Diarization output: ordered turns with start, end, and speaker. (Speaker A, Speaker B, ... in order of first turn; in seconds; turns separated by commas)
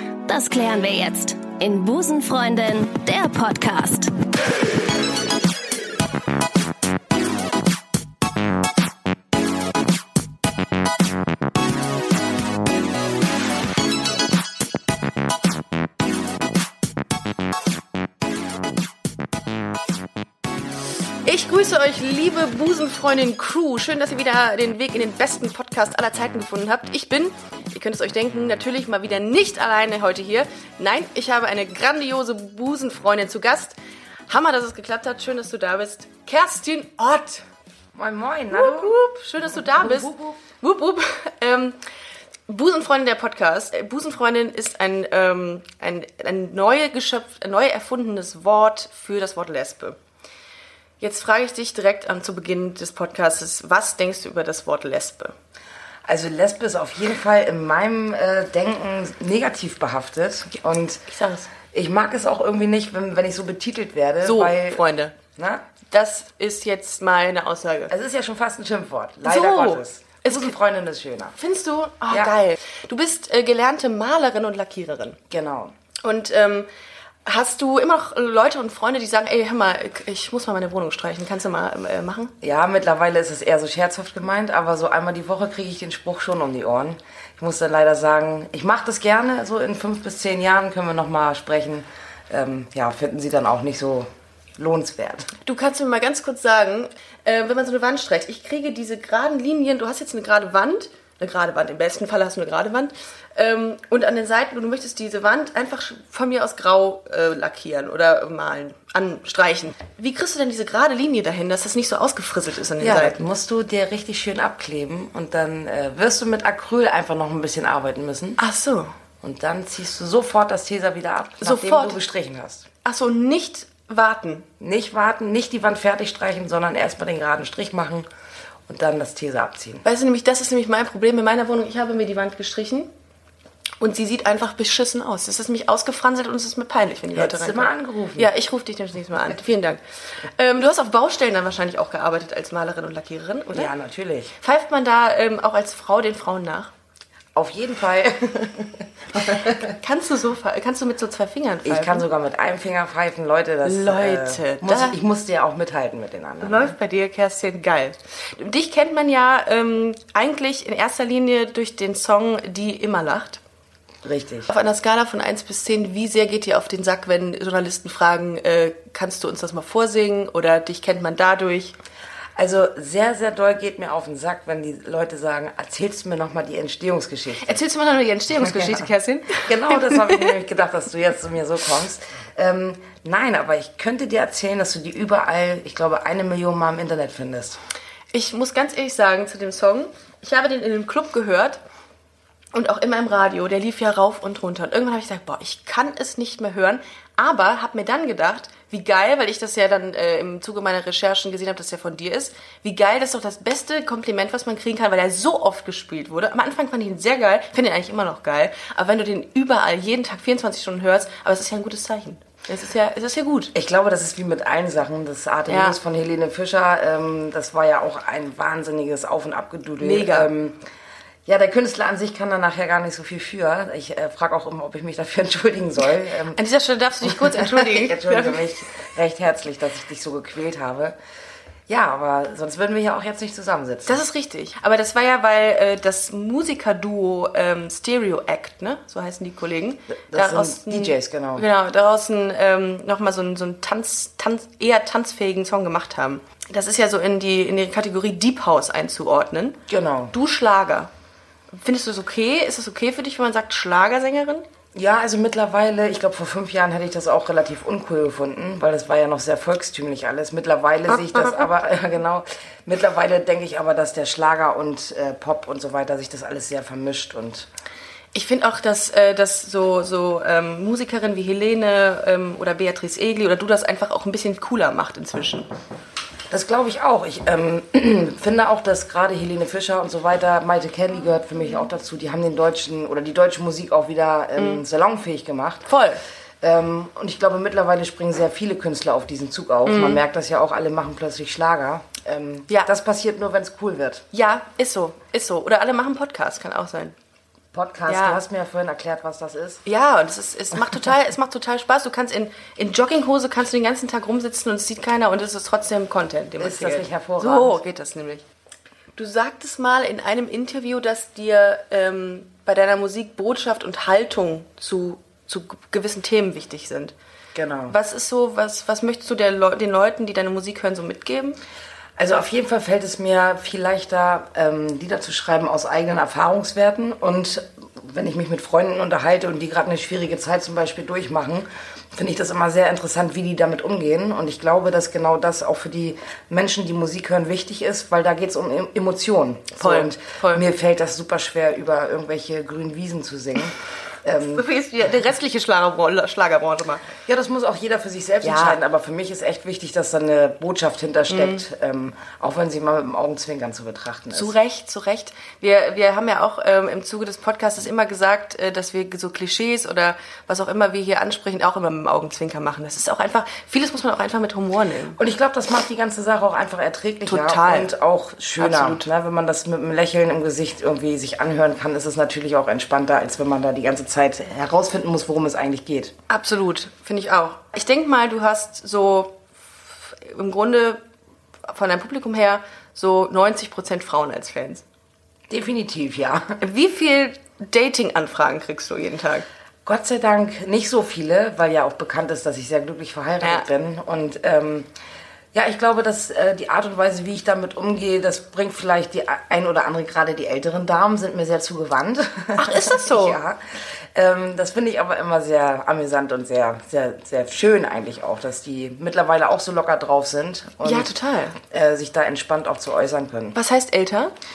Speaker A: 0.2-4.1, Speaker B: 21.2-33.7, Speaker B: 34.3-37.4, Speaker C: 37.9-40.4, Speaker B: 38.5-41.8, Speaker B: 42.5-50.0, Speaker B: 51.0-55.3, Speaker C: 56.0-61.0, Speaker B: 61.1-61.5, Speaker C: 61.7-64.8, Speaker B: 64.2-65.1, Speaker C: 65.3-65.7, Speaker B: 65.9-67.9, Speaker C: 67.9-71.3, Speaker B: 69.2-70.5, Speaker B: 71.4-75.2, Speaker C: 75.3-75.7, Speaker B: 76.0-76.7, Speaker B: 77.2-82.3, Speaker C: 82.4-95.3, Speaker B: 95.4-113.2, Speaker C: 112.8-118.4, Speaker B: 118.4-118.9, Speaker C: 119.2-122.7, Speaker B: 121.4-122.0, Speaker B: 122.8-124.5, Speaker C: 124.6-128.1, Speaker C: 128.7-129.8, Speaker B: 129.8-132.9, Speaker B: 133.8-143.7, Speaker C: 137.1-138.3, Speaker C: 143.5-144.4, Speaker B: 144.4-146.7, Speaker C: 147.3-149.8, Speaker B: 149.8-152.0, Speaker C: 151.6-156.7, Speaker B: 153.6-155.0, Speaker B: 156.4-163.4, Speaker C: 164.0-164.5, Speaker B: 164.5-171.8, Speaker C: 172.3-177.6, Speaker B: 177.4-180.4, Speaker C: 178.5-178.8, Speaker C: 179.4-187.6, Speaker B: 188.1-191.6, Speaker B: 192.5-213.5, Speaker C: 213.5-220.6, Speaker B: 215.5-215.8, Speaker B: 219.8-220.3, Speaker C: 221.2-226.4, Speaker B: 226.3-228.4, Speaker C: 227.0-230.9, Speaker C: 231.7-234.0, Speaker B: 233.8-249.6, Speaker C: 240.1-241.4, Speaker C: 249.7-250.1, Speaker B: 250.1-250.9, Speaker B: 251.5-254.4, Speaker C: 254.7-267.5, Speaker B: 260.9-261.5, Speaker B: 268.1-275.5, Speaker C: 276.3-285.7, Speaker B: 284.4-284.6, Speaker B: 285.7-286.0, Speaker C: 286.4-294.1, Speaker B: 289.6-290.0, Speaker B: 294.1-296.9, Speaker C: 297.5-299.6, Speaker B: 297.9-298.2, Speaker B: 299.6-308.2, Speaker C: 306.4-307.6, Speaker B: 308.9-316.9, Speaker C: 317.3-317.8, Speaker B: 317.7-321.4, Speaker C: 322.0-344.4, Speaker B: 339.6-340.4, Speaker B: 344.3-346.9, Speaker C: 347.0-354.3, Speaker B: 348.2-348.6, Speaker B: 351.1-351.4, Speaker B: 354.1-365.0, Speaker C: 365.0-375.9, Speaker B: 367.1-367.7, Speaker B: 368.4-368.8, Speaker B: 376.1-379.2, Speaker B: 379.8-380.8, Speaker B: 381.5-384.6, Speaker C: 385.3-386.4, Speaker B: 386.4-389.3, Speaker C: 389.6-394.7, Speaker B: 393.2-393.5, Speaker C: 395.3-413.4, Speaker B: 402.4-403.2, Speaker B: 410.6-411.4, Speaker B: 413.3-414.1